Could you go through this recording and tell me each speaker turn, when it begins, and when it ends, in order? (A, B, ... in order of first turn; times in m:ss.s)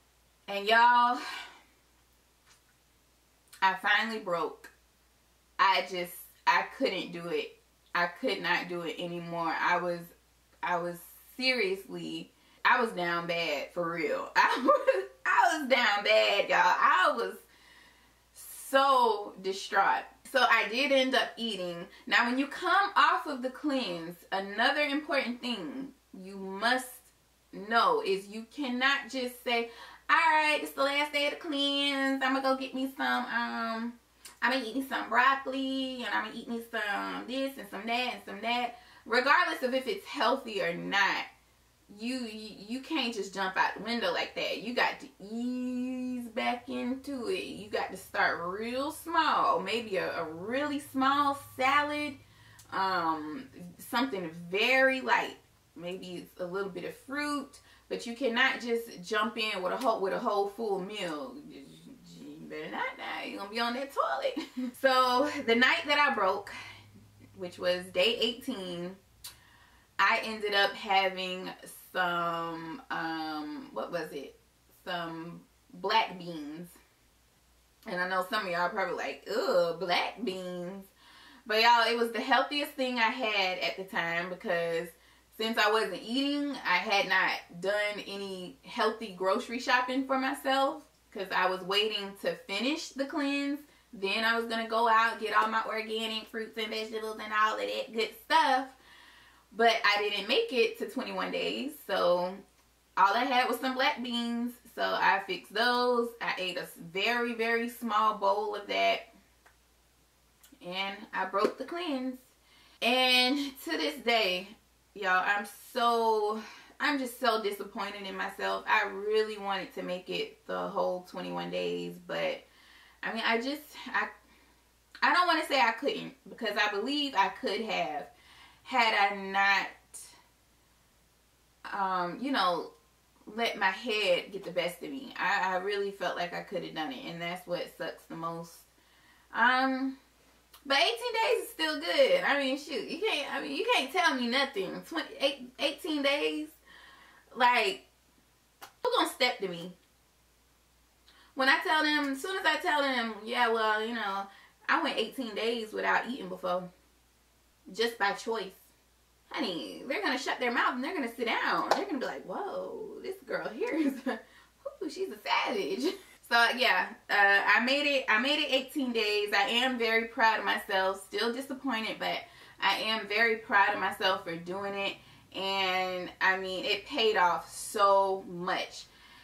0:00.5-0:01.2 A
0:03.6-0:04.7 A
0:05.6-0:10.1 A
0:10.6-0:17.4 A
0:18.3-0:41.3 A
0:41.9-0:52.2 A
0:52.7-1:06.5 A
1:07.3-1:09.0 A
1:10.0-1:16.8 A
1:17.9-1:20.9 A
1:21.4-1:38.8 A
1:39.5-1:42.4 A
1:43.0-1:49.0 A
1:50.6-1:52.2 A
1:52.8-2:02.4 A
2:03.0-2:04.1 A
2:05.0-2:08.1 A
2:08.6-2:10.1 A
2:11.7-2:12.7 A
2:13.2-2:18.7 A
2:19.3-2:20.0 A
2:20.6-2:26.6 A
2:27.3-2:27.8 A
2:28.8-2:29.7 A
2:31.3-2:36.7 A
2:37.7-2:38.6 A
2:39.3-2:58.9 A